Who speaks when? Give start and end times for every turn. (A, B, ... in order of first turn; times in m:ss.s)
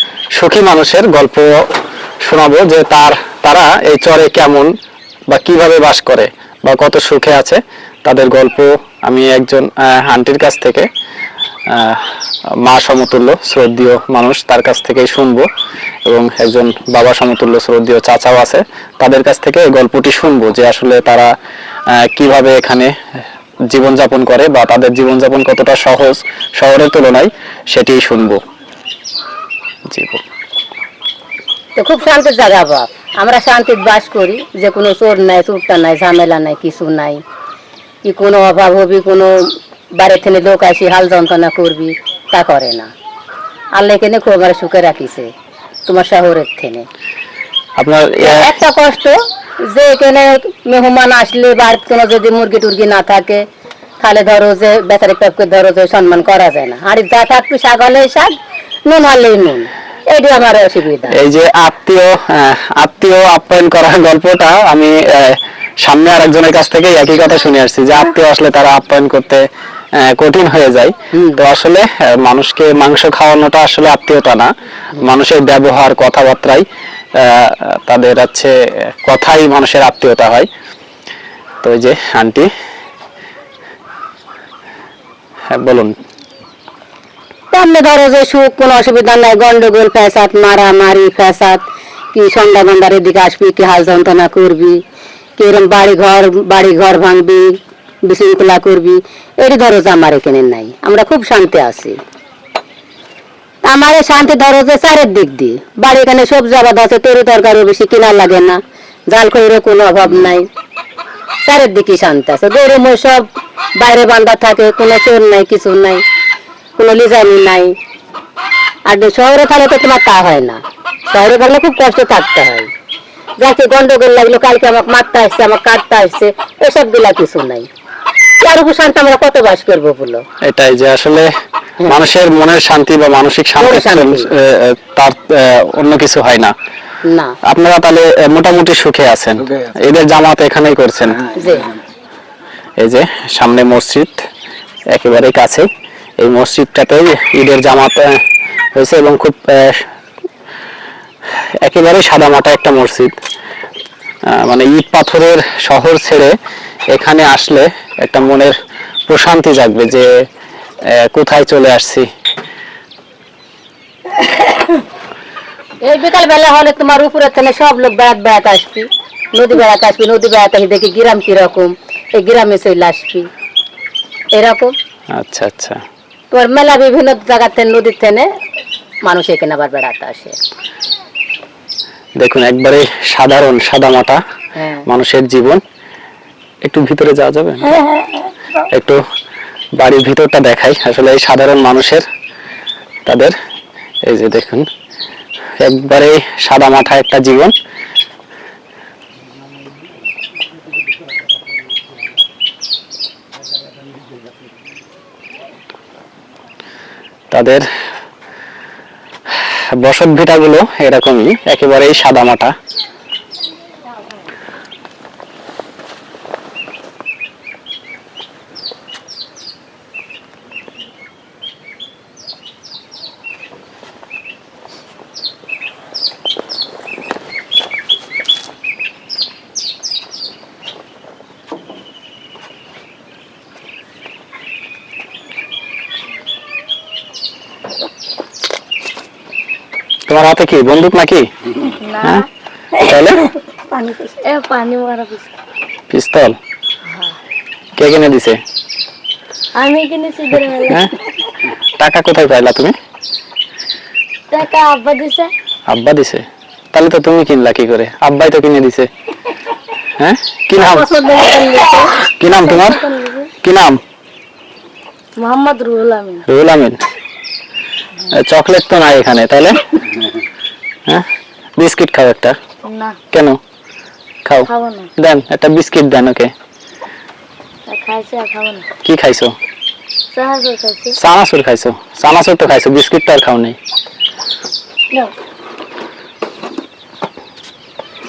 0:00.3-0:01.5 A
0:02.2-0:04.7 A
0:05.3-0:10.9 A
0:11.7-0:12.0 A
0:12.6-0:15.5 A
0:16.0-0:21.3 A
0:22.0-0:22.9 A
0:23.7-0:28.4 A
0:29.9-0:30.2 A
0:31.8-0:37.2 B
0:38.0-0:39.4 B
0:40.0-0:42.9 B
0:43.7-0:45.3 B
0:45.9-0:46.8 B
0:47.8-0:48.4 A
0:48.2-0:53.4 B
0:54.0-0:58.3 B
0:58.8-1:01.2 B
1:01.1-1:09.4 A
1:10.0-1:14.5 A
1:11.1-1:11.4 B
1:15.0-1:16.6 A
1:17.2-1:20.5 A
1:21.6-1:22.5 A
1:25.5-1:25.9 A
1:27.5-1:31.6 B
1:32.1-1:34.8 B
1:35.4-1:37.5 B
1:38.0-1:42.0 B
1:43.6-1:48.6 B
1:49.1-1:50.5 B
1:51.4-1:53.3 B
1:53.8-1:56.0 B
1:56.8-1:57.7 B
1:58.9-2:00.6 B
2:01.1-2:02.7 B
2:03.4-2:07.7 B
2:08.4-2:10.2 B
2:10.4-2:11.3 A
2:11.9-2:16.5 A
2:13.6-2:14.3 B
2:17.1-2:17.3 B
2:17.4-2:21.3 A
2:21.4-2:21.7 B
2:22.8-2:24.2 A
2:24.9-2:25.7 A
2:26.2-2:28.2 A
2:28.8-2:29.9 A
2:31.6-2:33.2 A
2:34.3-2:36.3 A
2:36.9-2:38.6 A
2:39.1-2:40.1 A
2:40.9-2:42.1 A
2:45.8-2:53.3 B
2:54.3-2:54.7 B
2:55.1-2:55.8 A
2:56.3-2:58.3 B
2:59.1-3:00.4 B
3:02.2-3:04.2 A
3:04.6-3:04.9 B
3:04.9-3:05.6 A
3:06.6-3:07.8 A
3:07.7-3:08.3 C
3:08.6-3:09.0 A
3:09.8-3:12.1 A
3:13.1-3:13.3 A
3:14.0-3:14.7 A
3:15.6-3:17.6 A
3:27.3-3:27.6 A
3:29.8-3:32.5 A
4:00.1-4:01.3 A
4:01.8-4:02.3 C
4:02.0-4:03.3 A
4:02.8-4:05.3 C
4:05.9-4:06.4 A
4:07.8-4:08.4 A
4:09.6-4:11.0 C
4:10.5-4:10.9 A
4:11.8-4:12.8 A
4:14.3-4:15.3 C
4:15.7-4:18.9 A
4:20.0-4:20.9 A
4:20.6-4:23.3 C
4:22.2-4:22.8 A
4:23.4-4:23.8 A
4:25.2-4:26.2 C
4:26.2-4:26.8 A
4:28.1-4:29.7 A
4:31.6-4:32.4 A
4:32.6-4:33.0 C
4:33.1-4:33.4 A
4:34.2-4:36.3 A
4:34.4-4:34.9 C
4:37.7-4:38.7 C
4:38.8-4:39.4 A
4:40.1-4:40.9 C
4:40.9-4:43.6 A